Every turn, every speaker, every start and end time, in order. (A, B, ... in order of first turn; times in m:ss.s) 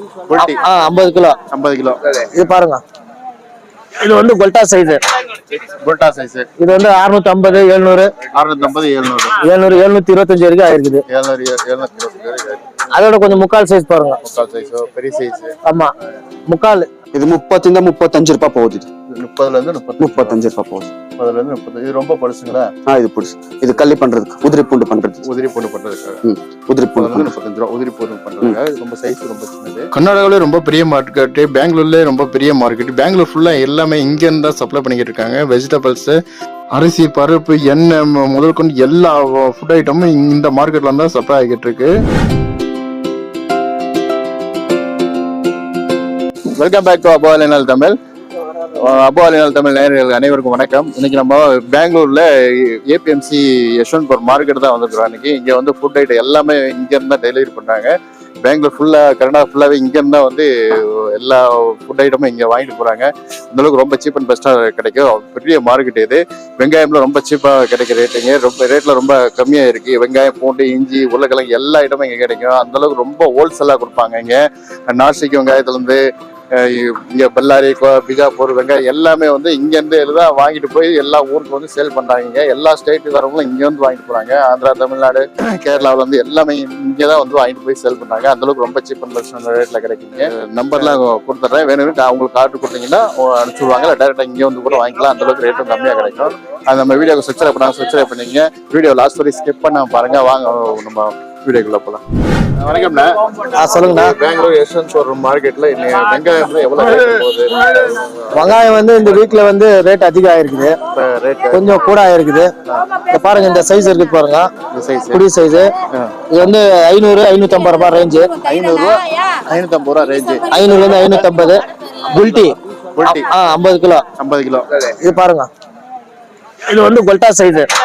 0:00.3-0:00.6 A
0:00.5-0:01.4 B
0:01.5-0:02.0 A
0:02.3-0:02.8 B
0:04.0-0:05.0 B
0:05.7-0:06.5 A
0:06.6-0:08.1 B
0:08.3-0:09.4 A
0:09.5-0:11.0 B
0:11.1-0:12.8 A
0:13.0-0:14.2 B
0:14.2-0:15.6 A
0:16.5-0:16.9 B
0:17.1-0:18.9 C
0:19.1-0:20.4 A
0:20.0-0:20.9 C
0:21.2-0:22.7 A
0:22.9-0:25.3 C
0:25.2-0:26.2 A
0:26.2-0:27.3 C
0:27.0-0:36.2 A
0:36.7-0:41.9 A
0:46.5-0:48.0 A
0:48.8-1:16.0 A
1:16.5-1:42.0 A
1:42.6-1:48.6 A
1:43.7-1:44.2 B
1:48.4-1:50.8 B
1:50.9-1:52.0 A
1:51.5-1:52.5 B
1:53.1-1:54.5 B
1:54.7-1:55.3 A
1:55.2-1:55.7 B
1:56.3-1:58.3 B
1:58.4-2:00.6 A
2:00.5-2:04.0 B
2:03.0-2:03.3 A
2:04.2-2:04.7 A
2:05.0-2:05.5 B
2:06.7-2:07.7 B